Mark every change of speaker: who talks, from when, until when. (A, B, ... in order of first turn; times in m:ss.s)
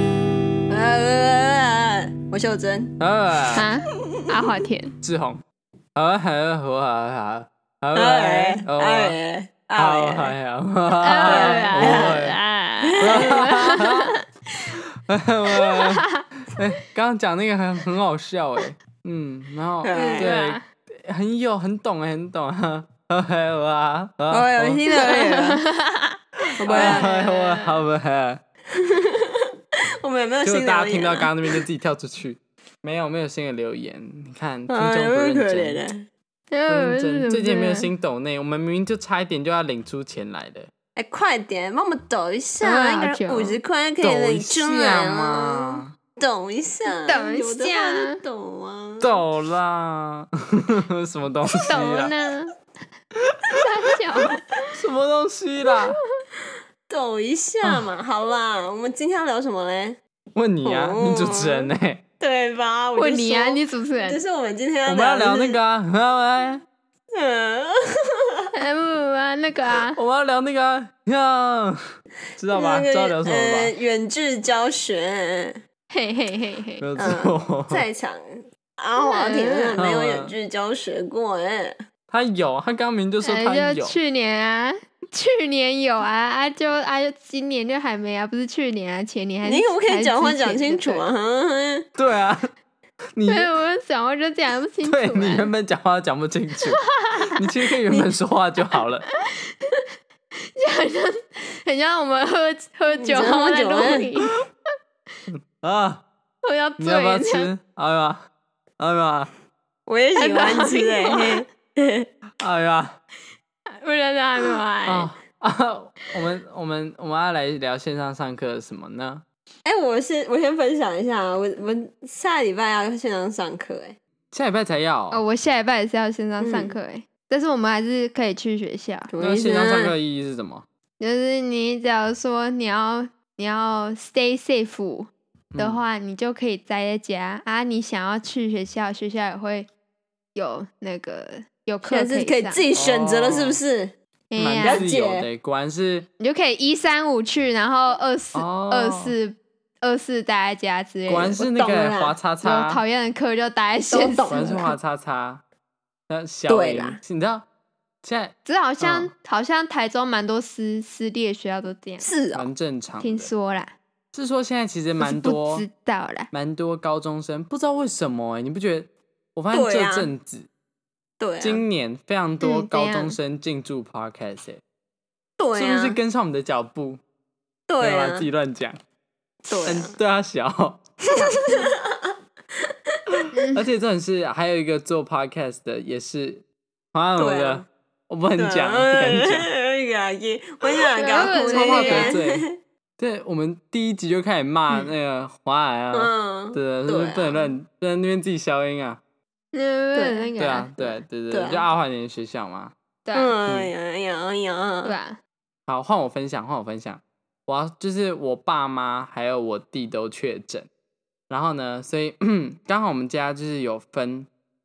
0:00.7-0:03.0 A
0:03.0-0:03.7 B
0:03.6-0:04.9 C
0:05.0-0:05.4 B
0:06.0-0:09.2 B
0:07.9-0:10.4 A
0:09.8-0:12.4 B
0:11.0-0:14.1 C
0:11.2-0:13.4 A
0:13.0-0:14.2 B
0:15.1-0:24.9 B
0:15.5-0:16.3 C
0:19.8-0:20.4 A
0:19.9-0:20.6 C
0:24.3-0:25.6 A
0:24.9-0:27.8 C
0:26.5-0:28.4 B
0:26.6-0:27.1 A
0:28.7-0:29.4 A
0:30.0-0:31.7 A
0:30.4-0:35.8 B
0:34.7-0:36.1 A
0:36.5-0:37.9 C
0:36.7-0:40.7 B
0:41.0-0:49.2 A
0:42.6-0:43.6 C
0:44.0-0:45.9 B
0:46.9-0:48.2 C
0:49.0-0:52.1 B
0:51.7-0:52.6 C
0:53.5-0:54.4 C
0:54.7-0:56.0 B
0:56.9-1:00.0 A
0:57.6-0:57.9 B
1:00.4-1:02.0 B
1:00.6-1:05.6 A
1:03.0-1:04.2 C
1:04.8-1:06.6 B
1:07.2-1:08.5 A
1:08.5-1:10.0 C
1:09.9-1:11.8 B
1:12.4-1:13.7 B
1:12.5-1:15.6 A
1:15.9-1:17.2 C
1:16.8-1:17.9 B
1:17.0-1:21.8 A
1:19.0-1:19.8 C
1:19.8-1:20.4 B
1:22.1-1:24.0 B
1:23.2-1:31.1 C
1:29.4-1:31.9 A
1:32.0-1:32.5 B
1:33.1-1:33.5 B
1:33.3-1:35.5 C
1:34.8-1:36.8 B
1:36.7-1:37.4 C
1:37.3-1:39.1 B
1:40.6-1:44.4 C
1:43.0-1:44.1 A
1:45.3-1:46.0 B
1:46.4-1:47.5 C
1:46.8-1:48.2 B
1:48.8-1:49.3 B
1:49.9-1:52.1 A
1:50.2-1:51.4 C
1:52.4-1:53.0 B
1:53.8-1:55.1 C
1:54.9-1:59.2 B
1:59.6-2:04.0 A
2:04.3-2:05.2 B
2:05.1-2:09.1 C
2:06.4-2:06.8 A
2:09.1-2:10.0 A
2:09.2-2:10.7 B
2:11.0-2:19.7 C
2:15.5-2:15.8 B
2:20.4-2:22.6 C
2:21.8-2:24.0 A
2:22.7-2:23.6 B
2:24.3-2:24.8 C
2:24.4-2:26.1 B
2:24.6-2:25.3 A
2:26.2-2:31.4 C
2:28.3-2:29.2 B
2:31.1-2:32.8 B
2:31.4-2:32.2 A
2:32.4-2:34.5 C
2:33.9-2:34.8 A
2:34.3-2:35.4 B
2:36.1-2:37.5 B
2:36.5-2:37.0 A
2:38.0-2:39.1 B
2:38.4-2:42.1 C
2:42.0-2:42.5 A
2:42.3-2:43.3 B
2:43.0-2:43.8 C
2:44.1-2:45.7 B
2:45.0-2:46.3 C
2:46.3-2:50.5 B
2:49.5-2:50.1 A
2:51.2-2:51.6 A
2:51.4-2:54.6 B
2:52.4-2:53.2 C
2:55.4-2:56.0 A
2:55.6-2:57.0 B
2:57.7-2:58.3 A
2:57.8-2:58.8 B
2:59.5-3:00.0 A
2:59.6-3:01.6 B
3:01.1-3:02.1 A
3:03.3-3:03.7 C
3:03.5-3:09.5 B
3:07.2-3:07.7 A
3:08.4-3:12.5 A
3:11.0-3:12.2 C
3:11.4-3:12.5 B
3:13.0-3:19.0 B
3:15.9-3:17.6 A
3:19.5-3:21.0 C
3:19.9-3:20.3 A
3:20.4-3:22.7 B
3:21.3-3:21.7 A
3:23.0-3:23.4 C
3:23.1-3:24.9 A
3:23.4-3:23.7 B
3:24.8-3:25.2 C
3:25.7-3:30.7 B
3:31.3-3:34.3 B